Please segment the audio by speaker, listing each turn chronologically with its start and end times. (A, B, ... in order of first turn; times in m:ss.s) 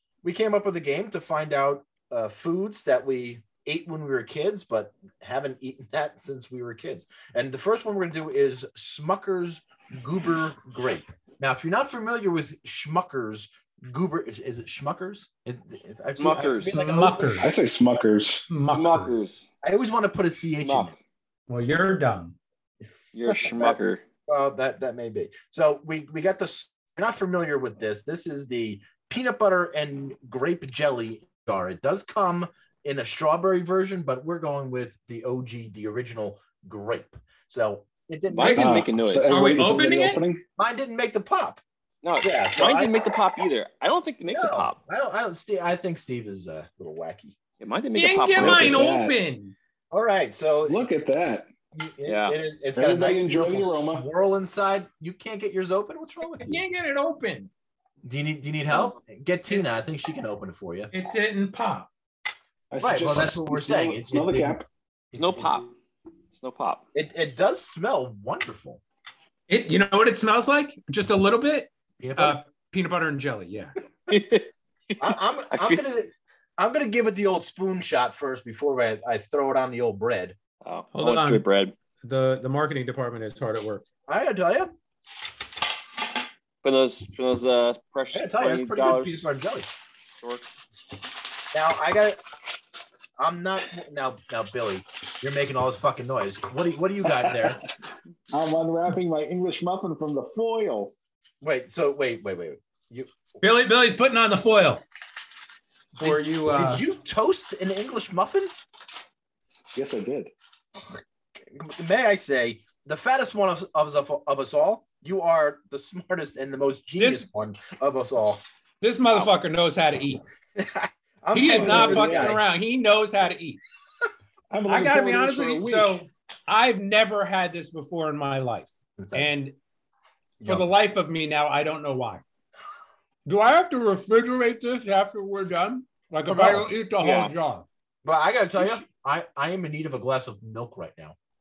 0:00.2-0:17.5 A
0:16.2-0:16.8 B
0:16.4-0:17.5 C
0:17.4-0:18.5 D
0:18.5-0:19.3 C
0:18.7-0:19.4 B
0:19.6-0:20.9 A
0:20.6-0:21.0 B
0:21.5-0:22.4 C
0:23.1-0:24.0 B
0:23.2-0:38.7 A
0:38.3-0:39.4 B
0:38.4-0:38.7 C
0:38.6-0:40.4 D
0:39.3-0:40.2 C
0:40.6-0:41.6 A
0:42.0-0:44.8 B
0:42.2-0:43.1 A
0:44.3-0:47.4 A
0:47.6-0:48.9 B
0:48.0-0:49.6 C
0:48.4-0:49.2 D
0:49.9-0:50.9 A
0:50.7-0:51.5 D
0:51.7-0:56.6 A
0:52.1-0:52.4 B
0:52.8-0:54.0 D
0:56.3-0:57.5 C
0:58.0-1:00.9 A
1:00.9-1:01.9 C
1:02.7-1:04.7 D
1:02.8-1:05.7 A
1:05.2-1:05.7 B
1:06.3-1:06.8 B
1:06.9-1:08.8 A
1:09.5-1:13.8 C
1:12.0-1:12.4 A
1:14.1-1:15.0 B
1:15.0-1:20.4 A
1:15.5-1:15.8 B
1:20.6-1:21.7 B
1:20.9-1:21.4 C
1:22.0-1:23.9 C
1:24.1-1:24.7 A
1:26.6-1:29.2 B
1:28.1-1:29.7 A
1:30.2-1:30.5 B
1:31.5-1:32.2 A
1:33.2-1:37.6 A
1:38.3-1:40.9 D
1:41.4-1:43.1 A
1:43.4-1:44.8 C
1:46.0-1:46.8 C
1:46.0-1:48.5 A
1:49.7-1:50.3 D
1:50.9-1:58.4 A
1:57.0-1:57.3 C
1:58.8-2:00.2 C
2:00.6-2:02.4 A
2:01.3-2:03.6 C
2:01.4-2:02.4 D
2:04.5-2:06.0 D
2:04.7-2:09.6 C
2:09.0-2:09.3 A
2:10.4-2:10.7 A
2:10.4-2:12.2 C
2:13.2-2:17.7 C
2:16.3-2:16.7 A
2:17.0-2:17.3 B
2:18.0-2:21.2 A